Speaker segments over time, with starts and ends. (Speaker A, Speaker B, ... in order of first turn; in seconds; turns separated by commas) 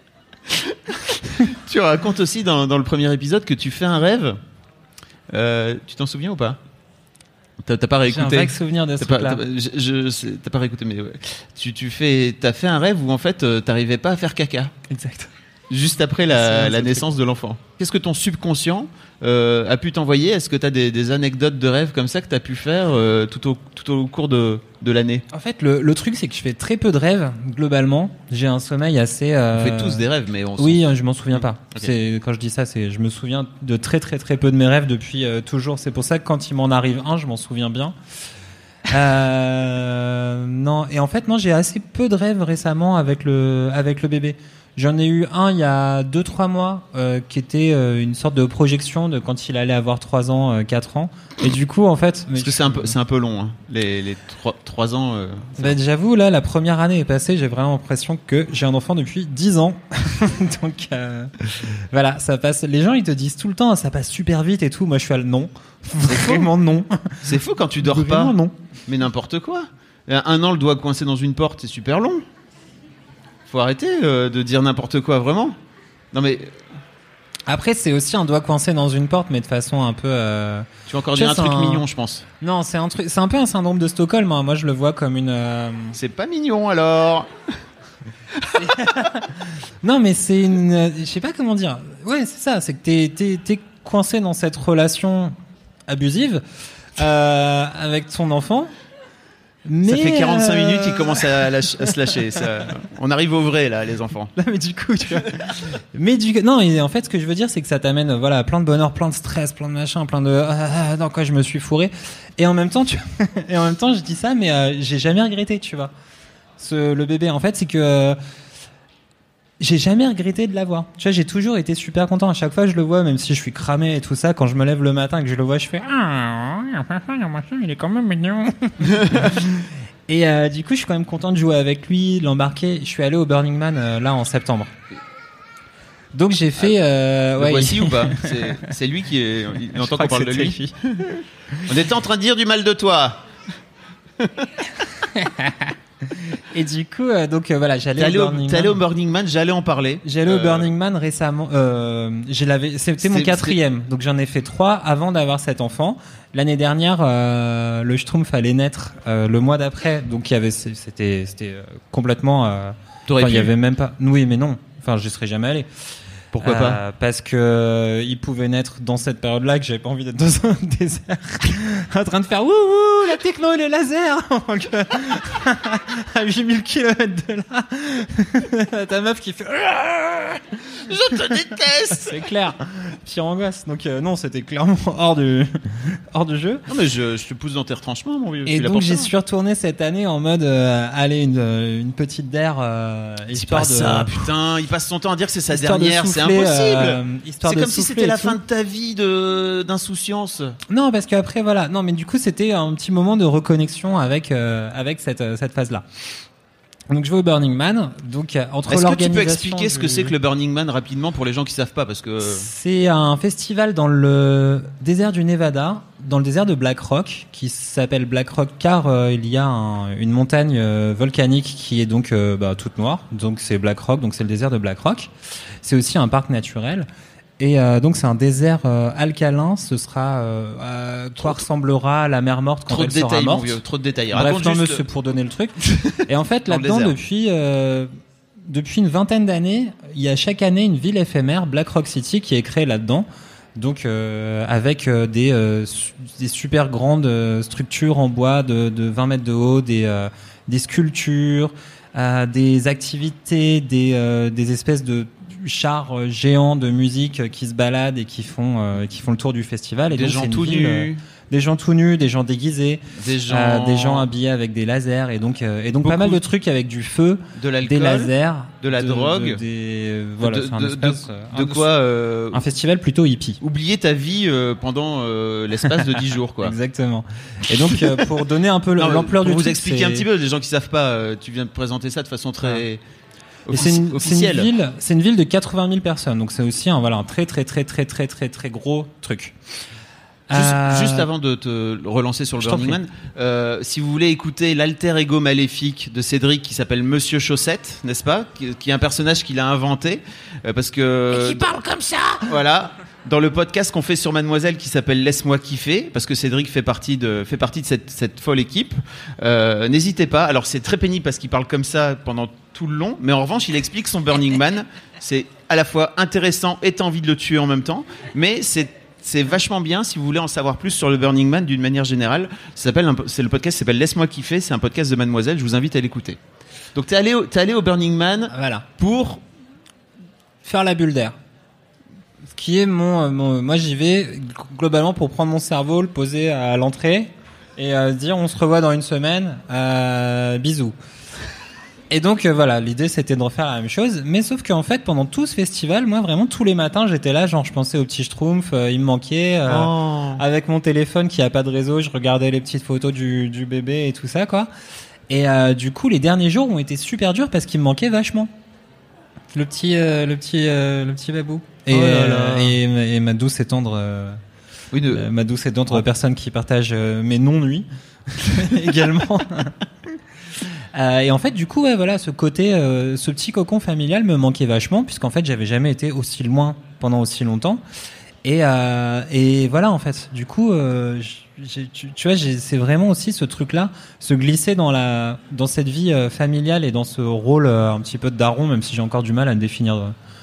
Speaker A: 1.3-4.4, Speaker A: 5.3-6.6, Speaker A: 7.6-14.7, Speaker B: 8.1-9.4, Speaker B: 14.9-15.3, Speaker A: 15.7-25.2, Speaker B: 16.3-17.1, Speaker B: 25.3-30.0, Speaker A: 29.5-30.8, Speaker B: 30.6-38.0, Speaker A: 31.3-31.9, Speaker B: 38.9-53.0, Speaker A: 52.3-55.8, Speaker B: 55.6-68.5, Speaker A: 66.0-66.5, Speaker A: 67.2-68.3, Speaker A: 68.8-72.2, Speaker A: 73.5-75.6, Speaker A: 76.1-76.5, Speaker B: 77.5-81.8, Speaker A: 80.9-82.2, Speaker B: 82.4-86.0, Speaker A: 85.9-87.3, Speaker B: 88.5-95.3, Speaker B: 95.9-96.4, Speaker B: 96.9-98.7, Speaker B: 99.7-102.2, Speaker A: 99.8-104.3, Speaker B: 104.3-115.9, Speaker B: 116.6-118.2, Speaker B: 119.6-134.7, Speaker B: 136.1-138.7, Speaker A: 137.4-141.0, Speaker B: 139.7-140.8, Speaker A: 141.7-143.2, Speaker A: 144.2-144.5, Speaker B: 144.8-148.8, Speaker A: 148.0-150.7, Speaker B: 150.0-165.7, Speaker A: 153.0-153.6, Speaker A: 163.1-163.5, Speaker A: 166.3-166.8, Speaker B: 166.4-180.5, Speaker A: 180.8-182.2, Speaker B: 181.9-186.6, Speaker A: 186.7-189.1, Speaker B: 188.4-194.3, Speaker A: 193.3-200.6, Speaker B: 195.5-198.4, Speaker B: 200.7-205.8, Speaker B: 206.9-210.1, Speaker A: 208.7-212.5, Speaker B: 212.2-226.9, Speaker B: 227.4-237.9, Speaker A: 232.7-234.8, Speaker A: 235.6-236.9, Speaker B: 238.4-271.7, Speaker A: 259.9-261.0, Speaker A: 262.9-264.1, Speaker A: 265.8-266.2, Speaker A: 267.4-269.4, Speaker A: 270.2-272.4, Speaker B: 272.3-273.4, Speaker A: 273.4-276.5, Speaker B: 276.4-280.1, Speaker A: 277.6-278.1, Speaker A: 278.8-282.8, Speaker A: 283.4-284.5, Speaker B: 283.5-289.4, Speaker B: 290.3-291.1, Speaker A: 290.3-301.5, Speaker B: 292.4-292.8, Speaker B: 301.1-302.3, Speaker A: 302.2-326.2, Speaker A: 326.7-329.2, Speaker B: 328.3-328.6, Speaker B: 330.4-331.1, Speaker B: 332.3-340.7, Speaker B: 341.9-354.5, Speaker A: 349.4-350.2, Speaker B: 355.1-358.3, Speaker B: 359.3-364.2, Speaker A: 361.7-362.6, Speaker A: 364.7-365.1, Speaker B: 364.9-369.5, Speaker B: 370.7-377.6, Speaker B: 378.2-389.9